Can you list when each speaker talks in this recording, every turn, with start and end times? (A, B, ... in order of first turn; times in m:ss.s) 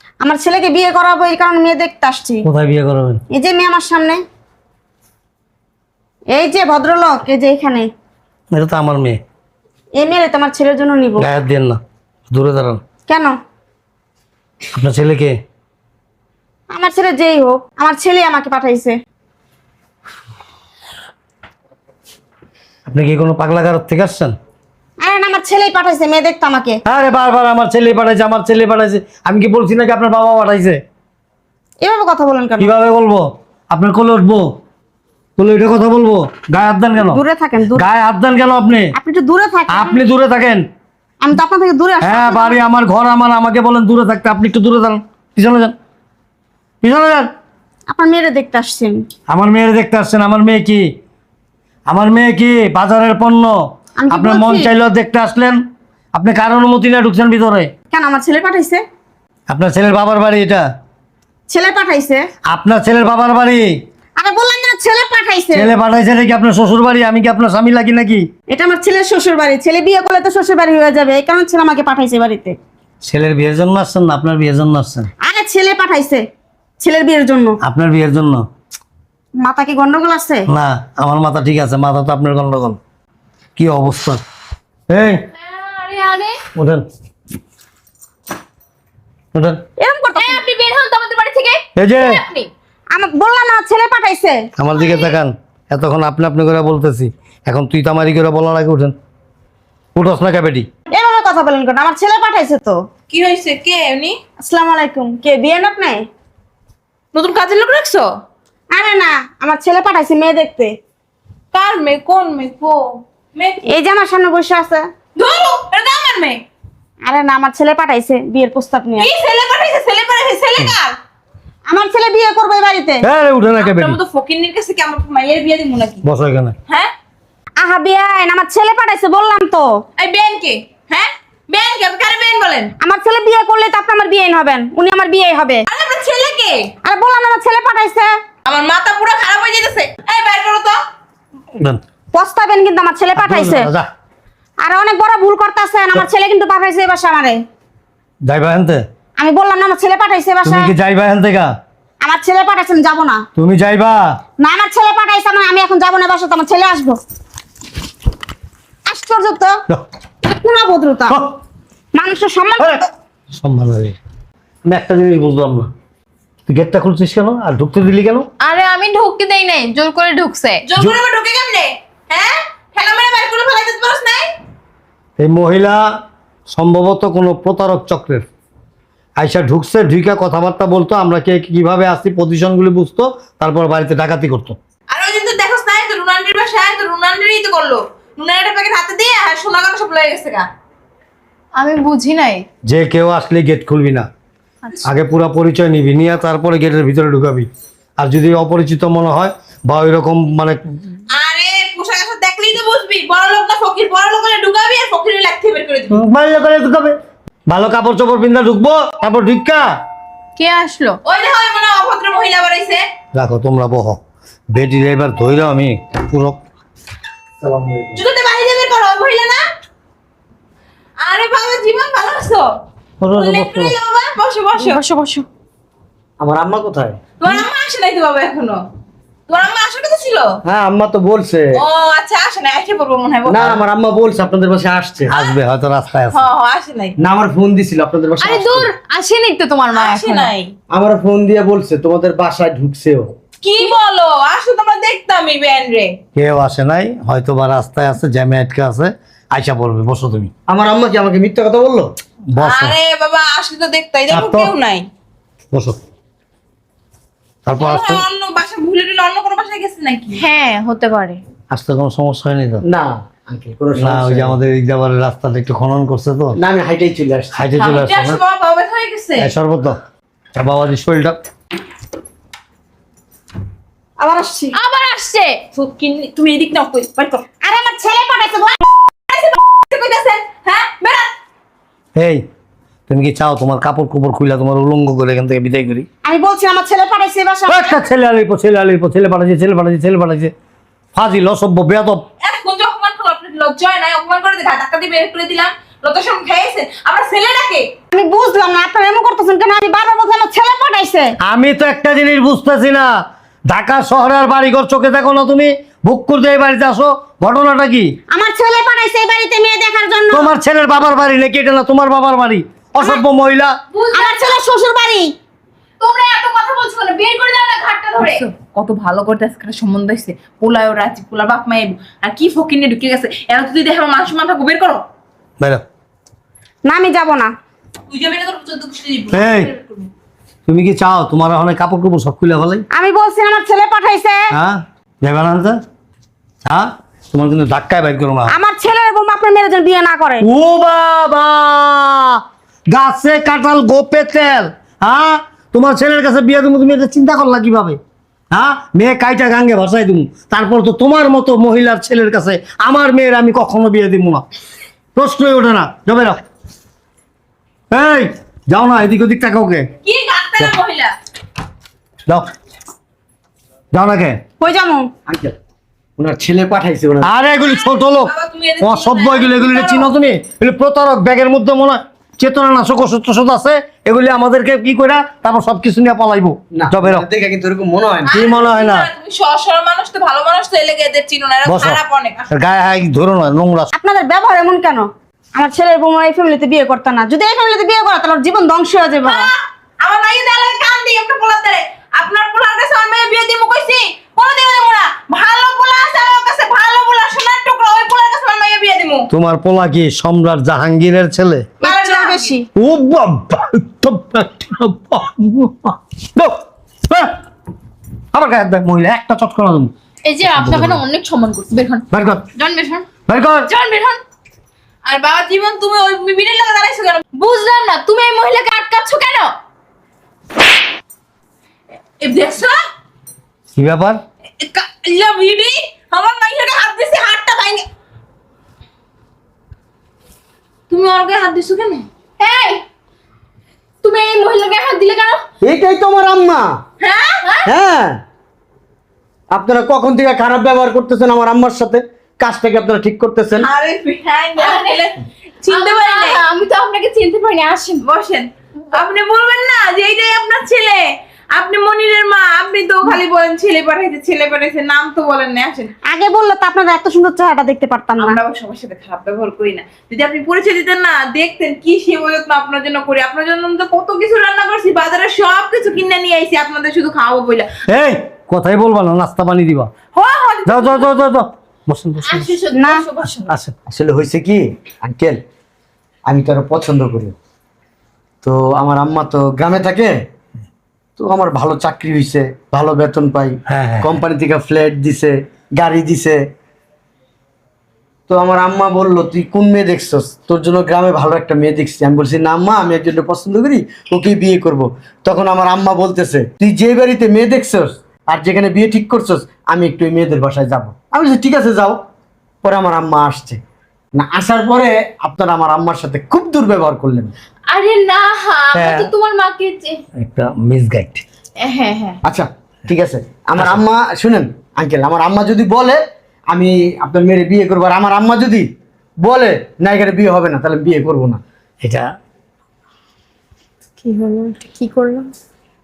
0:00.2-0:02.5 A
0:02.4-0:03.2 B
0:03.3-0:04.2 A
0:06.3-0:07.9 A
0:08.5-0:09.2 B
0:10.0-0:11.3 A
0:11.2-0:11.8 B
0:12.3-0:12.8 B
0:13.1-0:13.4 A
0:14.7-0:15.4 B
0:16.7-0:19.0 A
0:22.9-0:24.4 B
0:25.0-0:26.8 A
0:26.8-0:30.8 B
0:31.8-0:32.7 A
0:32.6-0:34.5 B
0:35.4-0:37.2 B
0:37.0-0:37.9 A
0:37.8-0:38.9 B
0:39.0-0:40.0 A
0:39.7-0:40.6 B
0:41.2-0:42.6 A
0:42.0-0:45.7 B
0:46.8-0:47.3 B
0:47.9-0:49.1 A
0:49.3-0:50.9 B
0:51.9-0:53.6 B
0:54.0-0:54.7 A
0:54.1-0:55.6 B
0:56.1-0:57.7 B
0:57.9-0:58.8 A
0:59.5-1:00.6 B
1:01.5-1:02.3 A
1:02.5-1:03.8 B
1:04.2-1:05.7 A
1:05.6-1:08.3 B
1:08.5-1:12.6 A
1:13.0-1:15.1 B
1:15.2-1:16.2 A
1:16.8-1:17.6 A
1:17.6-1:18.4 B
1:19.4-1:20.5 A
1:20.5-1:22.8 B
1:23.6-1:24.2 B
1:24.9-1:25.2 B
1:25.4-1:26.4 C
1:26.6-1:26.8 B
1:29.3-1:29.6 B
1:29.8-1:30.4 A
1:30.2-1:32.5 C
1:31.8-1:32.2 B
1:32.9-1:34.5 A
1:34.6-1:39.0 B
1:34.8-1:35.2 C
1:40.0-1:40.7 B
1:40.9-1:42.8 A
1:43.1-1:44.2 D
1:44.4-1:46.1 A
1:47.1-1:48.1 D
1:48.7-1:50.8 A
1:51.5-1:53.6 D
1:53.7-1:54.9 A
1:55.2-1:56.4 D
1:57.0-1:59.1 A
1:59.0-2:01.0 D
2:01.7-2:03.1 A
2:03.0-2:04.0 B
2:03.6-2:06.0 D
2:06.0-2:06.6 B
2:07.6-2:09.8 A
2:10.0-2:12.7 D
2:12.8-2:15.6 A
2:15.7-2:16.7 D
2:16.8-2:18.1 A
2:18.4-2:20.8 D
2:22.1-2:23.7 A
2:23.2-2:23.9 B
2:24.6-2:27.4 A
2:28.2-2:28.8 B
2:29.2-2:30.7 A
2:30.4-2:31.5 B
2:32.0-2:33.2 A
2:33.4-2:34.2 B
2:34.4-2:37.0 A
2:38.9-2:39.6 A
2:40.2-2:41.2 A
2:41.9-2:42.9 A
2:43.4-2:44.0 B
2:44.6-2:45.7 B
2:46.5-2:48.3 B
2:48.4-2:50.7 C
2:50.7-2:54.3 D
2:55.2-2:55.9 B
2:56.5-2:58.3 B
2:59.2-3:04.6 B
3:04.9-3:10.5 D
3:11.6-3:12.5 C
3:12.6-3:14.1 B
3:14.8-3:20.6 B
3:21.1-3:26.0 D
3:25.9-3:27.0 B
3:27.5-3:29.7 B
3:30.4-3:31.0 C
3:31.0-3:32.8 D
3:33.1-3:34.0 B
3:34.5-3:36.4 B
3:37.4-3:38.0 B
3:38.0-3:39.4 D
3:41.0-3:42.5 D
3:43.0-3:43.8 B
3:43.1-3:44.8 D
3:44.6-3:45.2 C
3:46.2-3:47.0 E
3:47.2-3:48.6 D
3:49.3-3:50.4 D
3:50.4-3:51.6 E
3:51.6-3:53.6 D
3:53.3-3:55.1 E
3:55.1-3:56.2 B
3:56.1-3:57.0 D
3:57.0-3:58.7 E
3:58.2-4:00.3 C
3:59.8-4:00.6 D
4:00.7-4:03.1 E
4:03.4-4:06.0 D
4:06.2-4:10.3 B
4:10.5-4:11.9 E
4:12.3-4:12.8 B
4:12.4-4:14.9 D
4:14.1-4:14.5 B
4:15.5-4:15.8 B
4:17.5-4:18.0 B
4:17.6-4:20.2 D
4:20.1-4:21.2 C
4:21.5-4:22.6 B
4:22.7-4:24.4 E
4:23.8-4:26.4 B
4:26.4-4:27.4 E
4:27.3-4:28.2 B
4:27.6-4:29.3 D
4:29.2-4:29.8 B
4:30.4-4:31.2 B
4:34.0-4:34.6 A
4:34.5-4:35.4 C
4:35.5-4:37.2 D
4:37.4-4:38.6 A
4:39.1-4:41.1 D
4:42.0-4:42.2 B
4:42.9-4:45.9 B
4:46.0-4:47.8 A
4:47.5-4:50.3 B
4:50.9-4:52.0 B
4:52.2-4:57.7 D
4:57.9-5:01.2 A
5:01.2-5:02.9 B
5:03.5-5:07.9 B
5:08.1-5:10.3 A
5:10.1-5:13.5 B
5:13.8-5:14.4 C
5:13.9-5:15.1 A
5:15.8-5:18.2 C
5:18.0-5:24.8 D
5:26.6-5:27.3 A
5:27.9-5:29.9 D
5:29.1-5:29.5 B
5:30.5-5:32.6 B
5:32.7-5:34.3 A
5:34.3-5:35.6 B
5:36.5-5:38.3 B
5:38.3-5:40.3 A
5:40.2-5:42.2 B
5:42.7-5:47.8 B
5:48.3-5:54.2 B
5:55.0-5:56.2 B
5:57.7-5:59.7 B
5:59.8-6:01.0 D
6:03.7-6:04.2 B
6:04.4-6:04.9 A
6:05.1-6:05.4 E
6:06.0-6:07.1 E
6:07.0-6:17.1 B
6:07.3-6:10.0 D
6:16.5-6:18.2 E
6:18.0-6:22.3 D
6:18.1-6:18.9 B
6:21.4-6:23.7 B
6:23.7-6:29.3 A
6:29.0-6:39.1 D
6:39.1-6:41.5 B
6:41.6-6:42.3 D
6:41.6-6:42.5 A
6:42.6-6:47.1 B
6:48.1-6:49.7 B
6:50.0-6:52.9 C
6:50.2-6:50.8 B
6:51.9-6:52.2 B
6:53.1-6:53.5 B
6:53.5-6:54.0 C
6:54.8-6:57.0 D
6:57.1-6:59.3 C
7:02.0-7:02.6 D
7:03.6-7:04.0 B
7:04.4-7:07.7 D
7:10.7-7:11.9 D
7:12.2-7:12.6 C
7:13.8-7:15.2 C
7:15.4-7:16.6 E
7:16.8-7:17.2 D
7:17.2-7:17.5 C
7:17.5-7:18.0 E
7:19.3-7:23.5 E
7:23.4-7:26.2 D
7:24.4-7:24.9 C
7:25.5-7:27.9 C
7:27.8-7:35.7 D
7:35.9-7:38.2 A
7:38.0-7:47.5 D
7:47.7-7:49.7 B
7:49.9-7:51.0 D
7:50.5-7:52.3 B
7:52.0-7:53.3 C
7:52.5-7:52.8 A
7:53.3-7:53.5 B
7:53.7-7:55.2 E
7:56.1-7:57.1 E
7:58.2-7:59.9 E
8:01.0-8:06.2 E
8:03.5-8:04.0 B
8:08.1-8:21.8 E
8:22.4-8:23.4 E
8:23.9-8:27.1 E
8:27.5-8:29.8 C
8:28.6-8:28.9 B
8:30.0-8:31.0 B
8:31.4-8:32.0 C
8:32.0-8:38.5 E
8:33.4-8:33.6 B
8:39.0-8:41.2 E
8:43.8-8:45.1 C